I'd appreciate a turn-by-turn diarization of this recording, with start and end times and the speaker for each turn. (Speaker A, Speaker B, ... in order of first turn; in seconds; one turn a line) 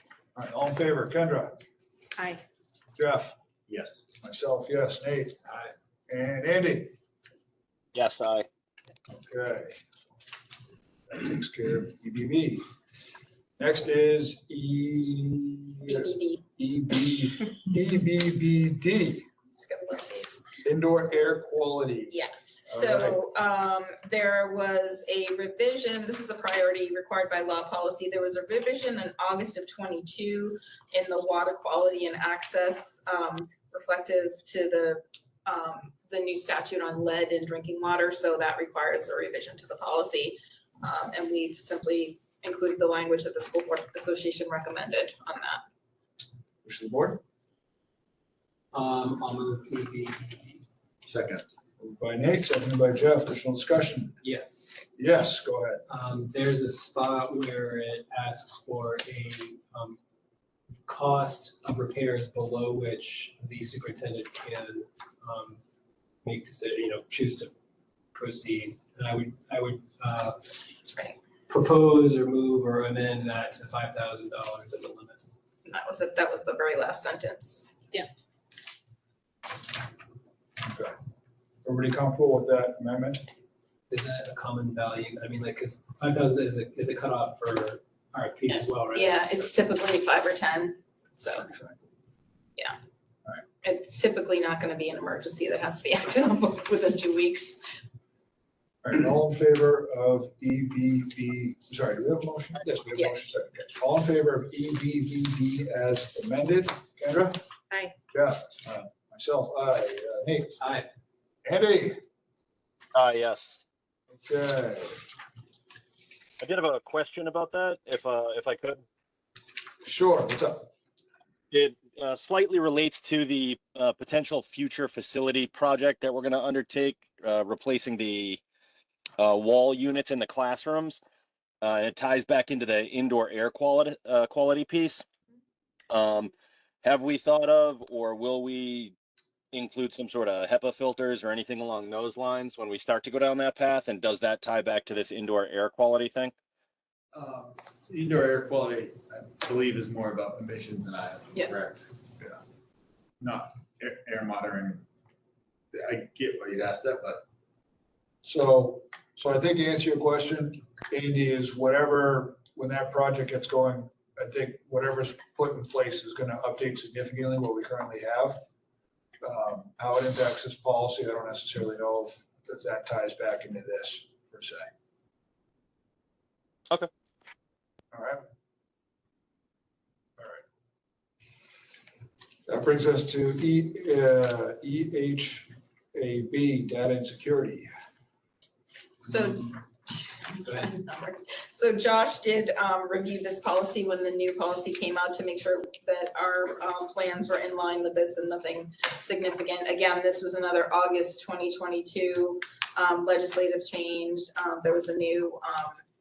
Speaker A: 0.3-1.6
Speaker A: 3.0-3.4
Speaker B: 3.7-4.0
Speaker A: 4.2-7.0
Speaker C: 7.9-8.5
Speaker A: 9.1-9.8
Speaker A: 11.1-12.7
Speaker A: 13.6-19.3
Speaker D: 15.9-16.4
Speaker D: 19.5-20.4
Speaker A: 20.6-23.2
Speaker D: 22.1-45.6
Speaker A: 46.6-47.2
Speaker E: 48.7-50.6
Speaker B: 51.0-51.4
Speaker A: 51.8-54.1
Speaker E: 54.2-54.9
Speaker A: 55.0-55.8
Speaker E: 55.9-60.0
Speaker E: 60.8-65.6
Speaker E: 66.2-67.5
Speaker E: 68.1-70.4
Speaker D: 70.8-71.2
Speaker E: 71.5-75.2
Speaker D: 75.7-78.0
Speaker A: 80.6-81.0
Speaker A: 81.6-83.2
Speaker E: 83.9-89.5
Speaker D: 88.9-91.5
Speaker D: 93.6-97.6
Speaker A: 98.8-107.4
Speaker D: 102.9-103.4
Speaker A: 108.1-110.6
Speaker E: 110.6-110.9
Speaker A: 111.5-112.0
Speaker C: 112.9-113.6
Speaker A: 114.1-115.0
Speaker C: 116.4-118.8
Speaker A: 119.8-120.7
Speaker C: 121.5-128.4
Speaker C: 129.2-131.0
Speaker C: 131.6-135.0
Speaker C: 135.9-138.9
Speaker C: 139.5-146.3
Speaker B: 147.1-152.4
Speaker B: 153.2-154.8
Speaker B: 155.7-157.2
Speaker A: 158.2-168.4
Speaker A: 169.2-174.7
Speaker A: 177.9-178.2
Speaker A: 182.5-187.7
Speaker D: 189.0-205.8